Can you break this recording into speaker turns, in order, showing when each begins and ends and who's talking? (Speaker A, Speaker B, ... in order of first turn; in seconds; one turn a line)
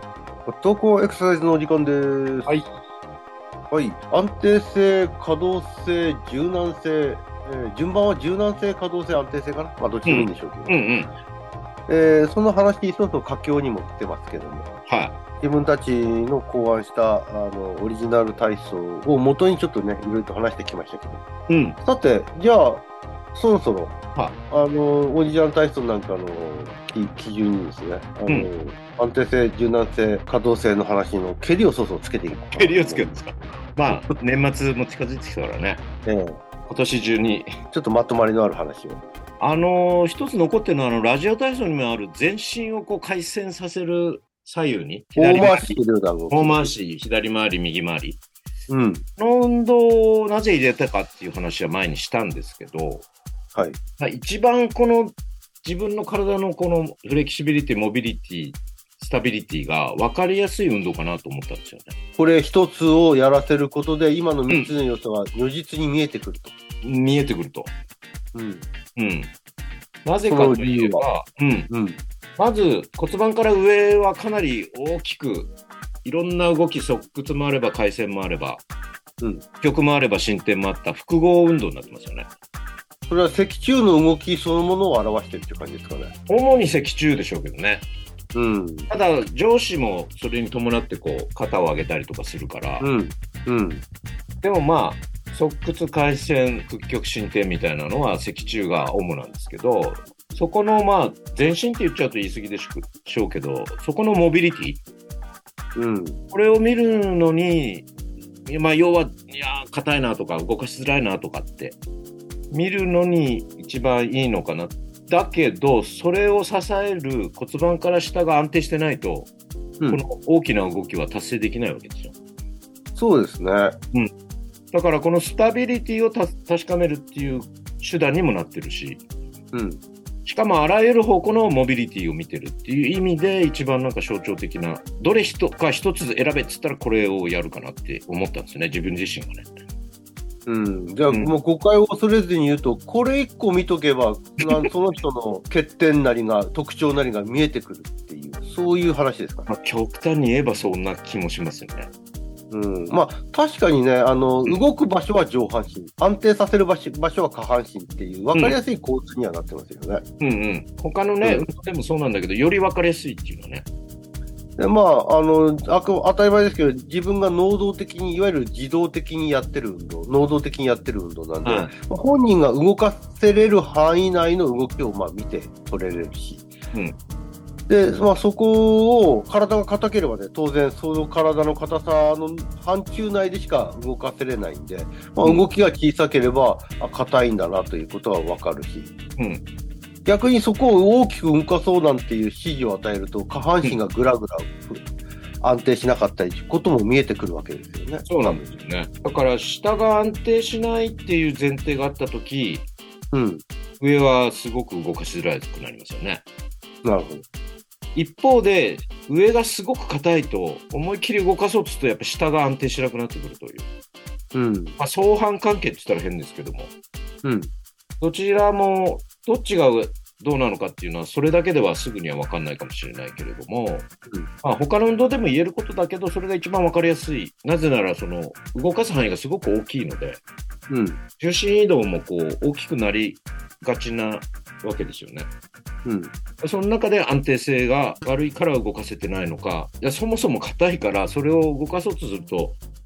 Speaker A: 0.5-2.6
Speaker A: 3.7-10.8
Speaker B: 10.1-11.1
Speaker A: 11.9-14.7
Speaker B: 14.9-15.2
Speaker A: 15.4-21.2
Speaker B: 21.5-21.8
Speaker A: 21.8-23.9
Speaker A: 24.5-33.1
Speaker B: 32.5-35.8
Speaker A: 36.0-36.4
Speaker B: 36.7-37.5
Speaker A: 37.7-39.0
Speaker B: 39.4-45.8
Speaker A: 45.1-46.7
Speaker B: 46.3-48.2
Speaker A: 48.7-49.0
Speaker B: 49.2-53.1
Speaker B: 54.0-61.9
Speaker A: 62.2-66.5
Speaker B: 66.8-67.7
Speaker A: 68.3-68.6
Speaker B: 69.0-69.3
Speaker B: 70.0-71.7
Speaker A: 70.2-71.0
Speaker A: 71.7-72.0
Speaker B: 72.4-75.5
Speaker B: 76.0-78.6
Speaker B: 79.6-82.3
Speaker A: 83.1-86.1
Speaker B: 86.3-87.8
Speaker A: 88.3-88.9
Speaker B: 88.9-92.8
Speaker A: 92.8-93.8
Speaker B: 94.4-104.8
Speaker A: 105.8-106.2
Speaker B: 106.3-107.9
Speaker B: 108.5-111.8
Speaker B: 112.5-119.3
Speaker A: 119.8-120.0
Speaker B: 119.9-122.1
Speaker A: 122.9-123.8
Speaker B: 124.7-129.0
Speaker A: 129.5-129.8
Speaker B: 130.2-139.5
Speaker A: 140.4-149.5
Speaker B: 149.5-151.9
Speaker A: 152.5-160.0
Speaker B: 160.2-163.7
Speaker A: 164.6-176.5
Speaker B: 171.4-171.7
Speaker A: 177.7-188.9
Speaker B: 189.2-189.4
Speaker A: 190.0-194.9
Speaker A: 195.4-198.4
Speaker B: 198.1-202.7
Speaker A: 203.1-203.4
Speaker B: 203.8-206.2
Speaker A: 206.8-207.2
Speaker B: 207.9-213.7
Speaker A: 214.3-214.8
Speaker B: 214.8-216.7
Speaker A: 217.2-217.5
Speaker B: 218.0-223.9
Speaker B: 224.4-230.2
Speaker A: 230.7-231.0
Speaker B: 231.2-235.3
Speaker A: 235.8-236.1
Speaker B: 236.4-242.6